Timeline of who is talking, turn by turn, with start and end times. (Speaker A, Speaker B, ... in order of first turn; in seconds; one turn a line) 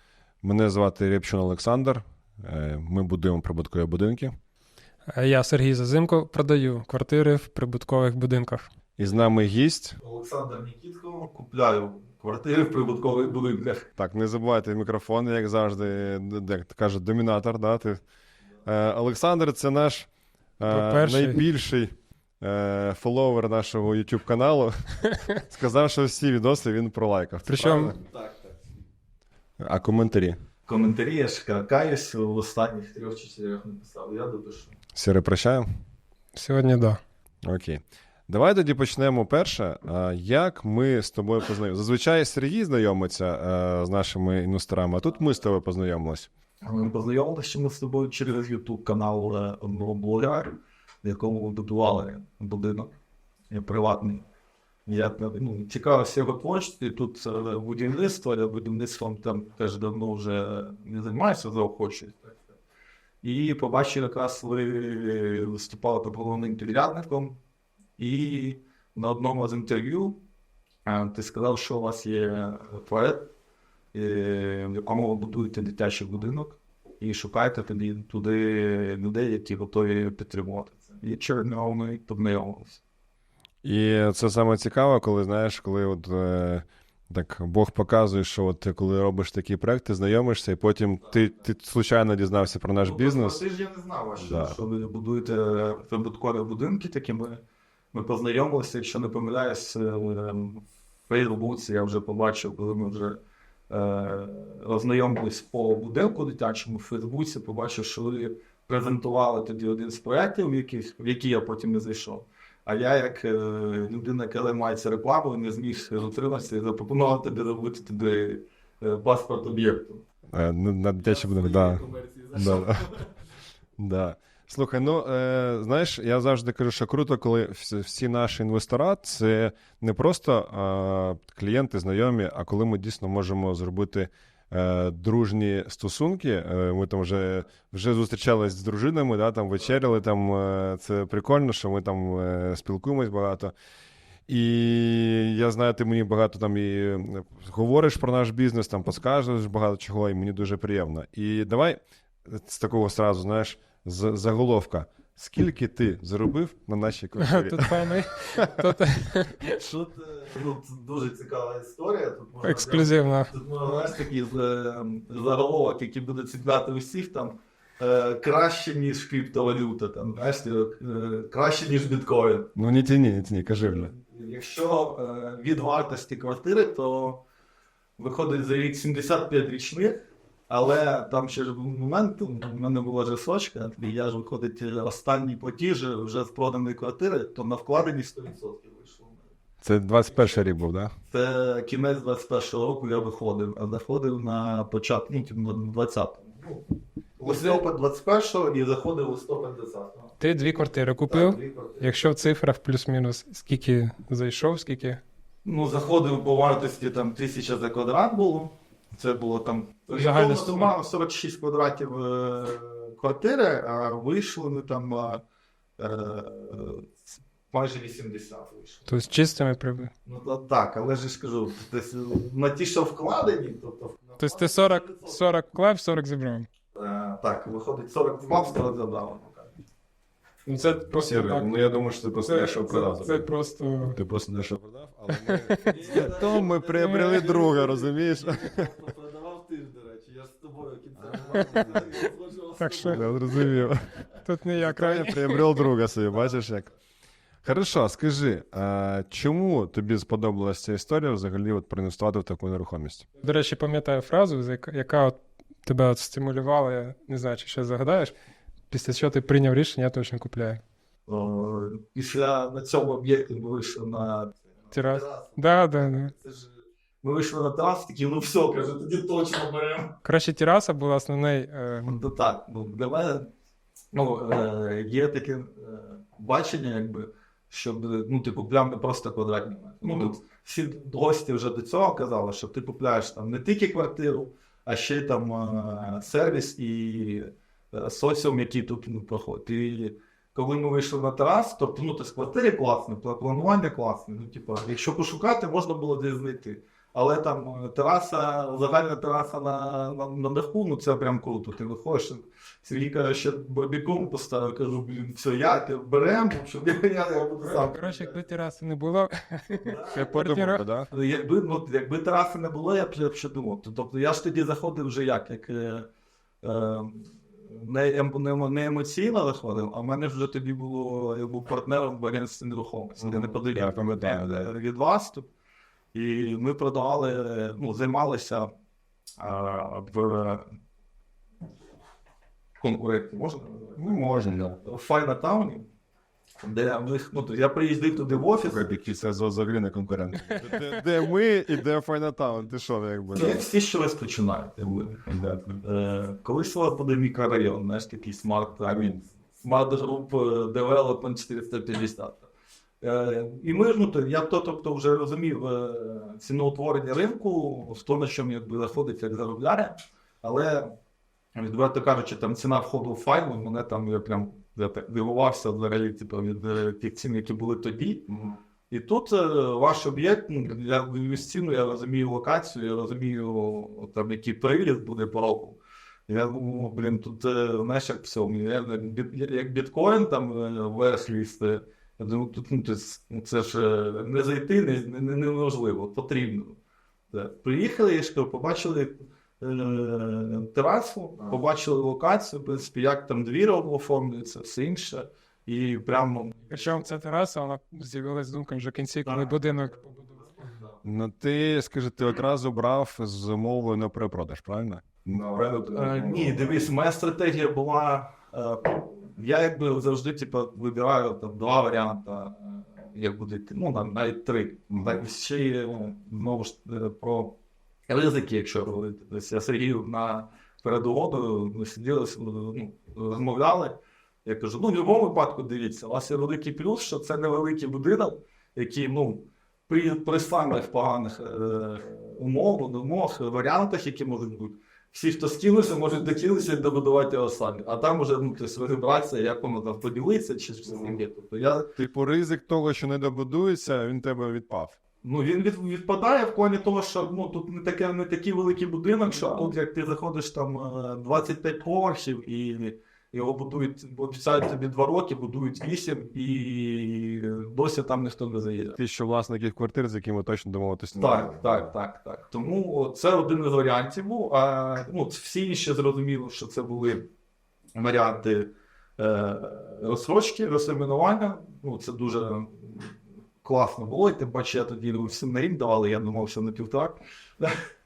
Speaker A: 0.4-4.4
Speaker B: 5.1-8.7
Speaker A: 9.0-10.0
Speaker C: 10.0-13.8
Speaker A: 14.0-18.0
Speaker A: 18.6-28.1
Speaker B: 20.6-21.4
Speaker B: 27.5-27.9
Speaker C: 28.1-28.6
Speaker A: 29.6-30.4
Speaker C: 30.7-34.7
Speaker A: 34.9-35.6
Speaker B: 36.3-37.0
Speaker A: 37.4-46.3
Speaker C: 46.6-52.9
Speaker C: 53.5-54.2
Speaker C: 54.9-62.4
Speaker C: 63.2-67.4
Speaker C: 68.0-70.2
Speaker C: 70.8-73.3
Speaker C: 73.9-82.8
Speaker A: 83.6-93.4
Speaker C: 92.8-120.0
Speaker A: 94.2-94.6
Speaker A: 120.3-122.9
Speaker C: 121.0-123.1
Speaker A: 123.8-143.5
Speaker A: 144.3-158.7
Speaker B: 157.2-159.4
Speaker C: 159.4-172.5
Speaker B: 162.4-163.3
Speaker A: 172.5-173.9
Speaker C: 173.7-177.2
Speaker C: 178.0-189.2
Speaker A: 189.6-190.9
Speaker C: 191.1-196.6
Speaker C: 197.2-200.1
Speaker B: 197.2-197.6
Speaker B: 200.2-205.0
Speaker C: 201.1-201.9
Speaker C: 205.4-215.2
Speaker B: 209.9-210.7
Speaker C: 215.8-218.8
Speaker B: 218.9-219.9
Speaker C: 220.1-225.2
Speaker B: 224.2-226.5
Speaker C: 226.7-229.6
Speaker B: 230.4-231.6
Speaker A: 230.9-233.2
Speaker B: 232.2-234.0
Speaker A: 233.8-238.7
Speaker B: 235.1-237.3
Speaker C: 235.7-243.7
Speaker B: 241.3-241.8
Speaker B: 242.6-243.0
Speaker A: 242.8-244.1
Speaker B: 244.2-245.7
Speaker A: 244.6-246.7
Speaker A: 247.4-253.1
Speaker B: 253.2-258.1
Speaker B: 258.7-260.6
Speaker C: 261.1-269.9
Speaker B: 264.7-266.1
Speaker B: 270.0-272.0
Speaker C: 271.8-273.3
Speaker C: 273.9-308.2
Speaker B: 307.4-310.6
Speaker C: 309.6-310.1
Speaker A: 309.9-310.9
Speaker C: 310.9-315.9
Speaker C: 316.4-325.3
Speaker A: 323.0-324.5
Speaker C: 325.9-328.5
Speaker C: 329.2-330.6
Speaker C: 332.6-334.0
Speaker A: 333.8-334.6
Speaker C: 334.6-335.7
Speaker C: 336.4-338.7
Speaker A: 338.4-343.4
Speaker B: 340.4-340.7
Speaker C: 343.1-345.0
Speaker A: 345.1-345.6
Speaker C: 345.6-352.3
Speaker A: 348.6-349.0
Speaker C: 352.8-360.7
Speaker C: 361.3-368.1
Speaker A: 368.1-368.4
Speaker C: 368.7-386.6
Speaker C: 387.1-396.7
Speaker B: 396.5-400.3
Speaker C: 399.0-400.8
Speaker A: 400.8-406.5
Speaker C: 405.7-417.4
Speaker C: 417.9-441.7
Speaker A: 441.7-444.8
Speaker C: 445.0-458.8
Speaker A: 458.8-461.7
Speaker C: 460.9-467.1
Speaker C: 467.7-477.6